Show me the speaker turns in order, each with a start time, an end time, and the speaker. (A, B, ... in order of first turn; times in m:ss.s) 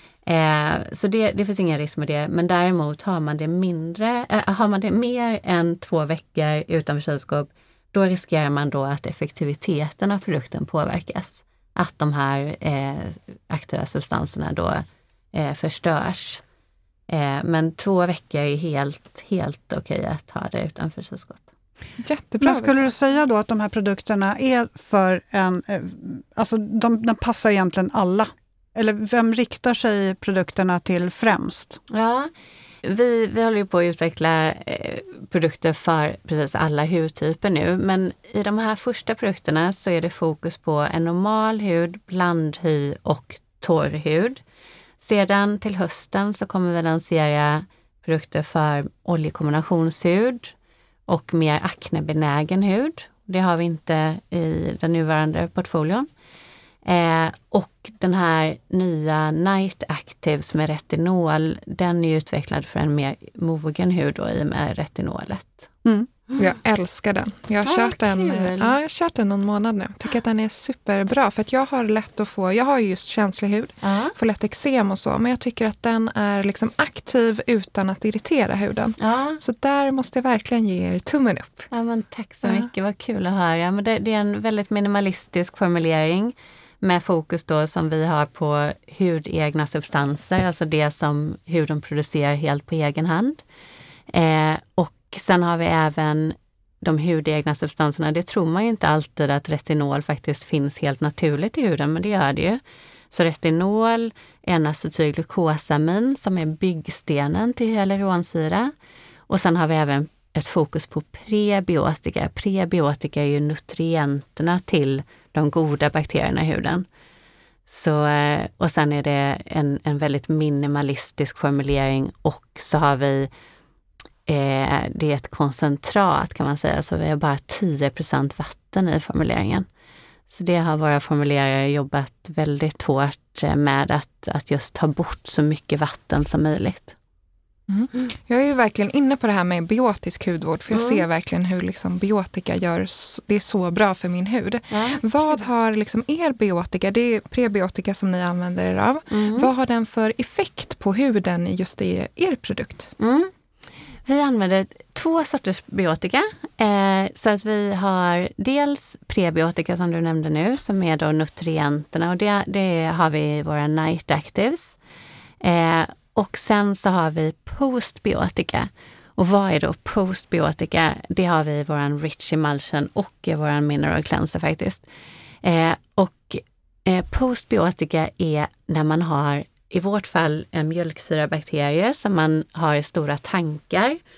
0:00.2-0:16.4 A
0:17.1-0:21.4 A
0:22.0-0:22.9 B
0:22.4-0:31.8 C
0:31.9-0:32.3 A
0:32.8-0:44.4 A
0:45.0-0:50.5 A
0:51.1-0:56.1 A
0:56.8-1:05.7 A
1:06.4-1:21.7 B
1:07.6-1:08.7 A
1:13.8-1:14.1 A
1:19.0-1:19.4 A
1:21.7-1:33.4 A
1:34.1-1:42.6 A
1:43.1-1:48.7 A
1:49.3-1:56.9 A
1:57.7-2:03.3 A
2:04.3-2:09.7 A
2:10.3-2:16.9 A
2:17.7-2:32.9 B
2:20.7-2:21.0 A
2:24.7-2:25.0 A
2:29.1-2:29.5 A
2:33.0-2:33.3 A
2:34.0-2:44.8 A
2:45.4-2:54.8 A
2:55.4-3:04.0 A